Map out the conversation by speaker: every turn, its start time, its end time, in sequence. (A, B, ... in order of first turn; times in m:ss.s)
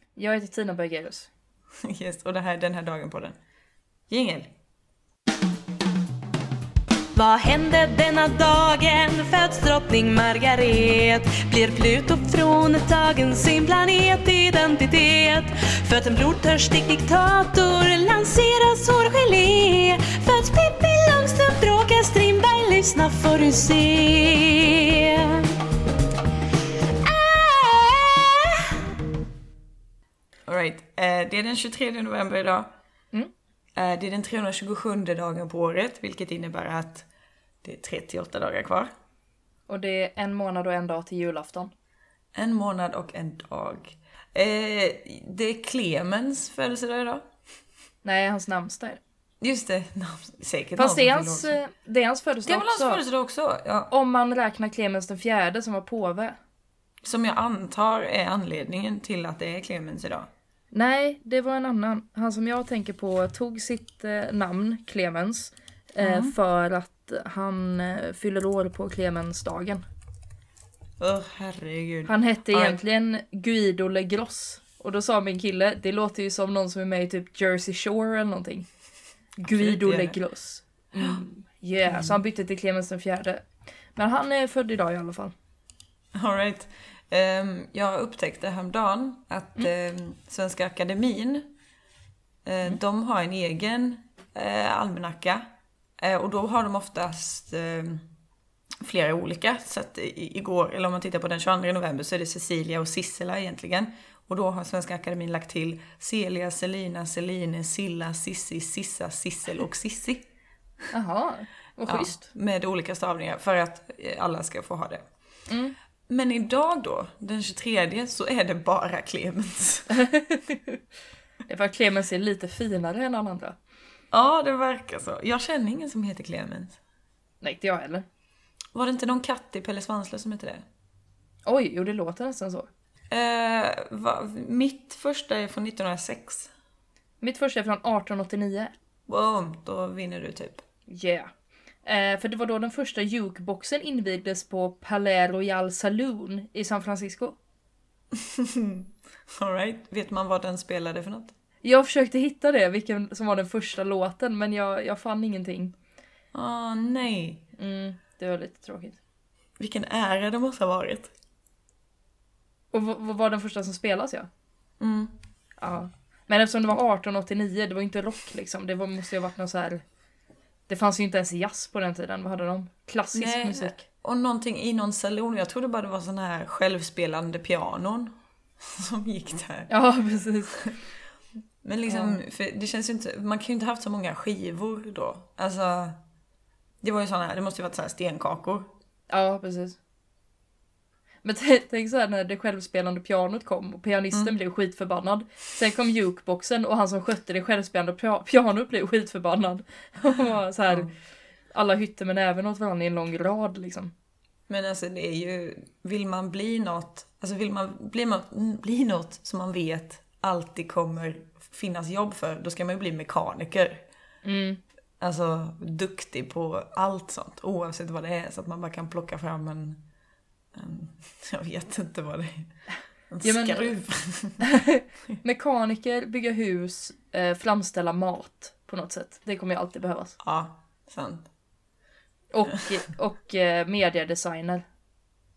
0:00.2-0:01.3 A
0:01.8-0:03.4 B
0:04.1-0:04.5 B
0:07.1-0:25.6 C
0:27.0-0:28.8 C
0:30.5-0:32.7 B
0:33.8-0:37.1 B
0:37.6-0:38.9 B
0:39.7-0:41.7 A
0:42.4-0:47.3 B
0:48.0-0:49.0 A
0:49.4-0:51.6 B
0:50.8-0:53.0 A
0:52.4-0:53.9 B
0:53.9-0:56.4 A
0:57.0-1:00.3 B
1:00.7-1:09.8 A
1:06.0-1:06.4 B
1:11.0-1:12.8 B
1:12.1-1:18.7 A
1:19.4-1:25.3 A
1:19.4-1:20.2 B
1:21.0-1:21.2 B
1:21.9-1:22.2 B
1:26.2-1:31.5 B
1:32.4-1:35.4 B
1:36.0-1:38.0 B
1:38.8-1:50.2 B
1:50.9-1:52.2 A
1:51.9-1:55.0 B
1:55.5-1:55.8 A
1:56.1-2:00.0 B
1:59.9-2:00.8 A
2:01.5-2:03.6 A
2:04.1-2:06.8 B
2:07.4-2:08.1 A
2:08.7-2:10.6 B
2:11.4-2:12.7 A
2:13.1-2:16.5 B
2:17.2-2:18.7 A
2:19.1-2:20.6 B
2:20.9-2:21.3 A
2:21.8-2:27.4 A
2:28.1-2:31.4 B
2:31.6-2:35.8 A
2:36.3-2:37.4 B
2:37.6-2:39.0 A
2:39.6-2:41.1 B
2:42.7-2:44.3 A
2:44.8-2:45.1 B
2:45.6-2:49.8 A
2:50.7-2:53.8 A
2:53.1-2:59.7 B
2:59.7-3:00.6 A
3:01.6-3:06.0 B
3:01.9-3:02.2 A
3:06.8-3:08.7 B
3:09.1-3:09.8 A
3:11.2-3:20.9 A
3:21.5-3:23.9 A
3:24.5-3:33.8 B
3:34.2-3:34.6 A
3:35.0-3:39.8 B
3:40.5-3:42.6 B
3:43.1-3:44.4 B
3:43.2-3:43.7 A
3:44.4-3:50.2 A
3:50.2-3:51.3 B
3:52.3-3:54.6 A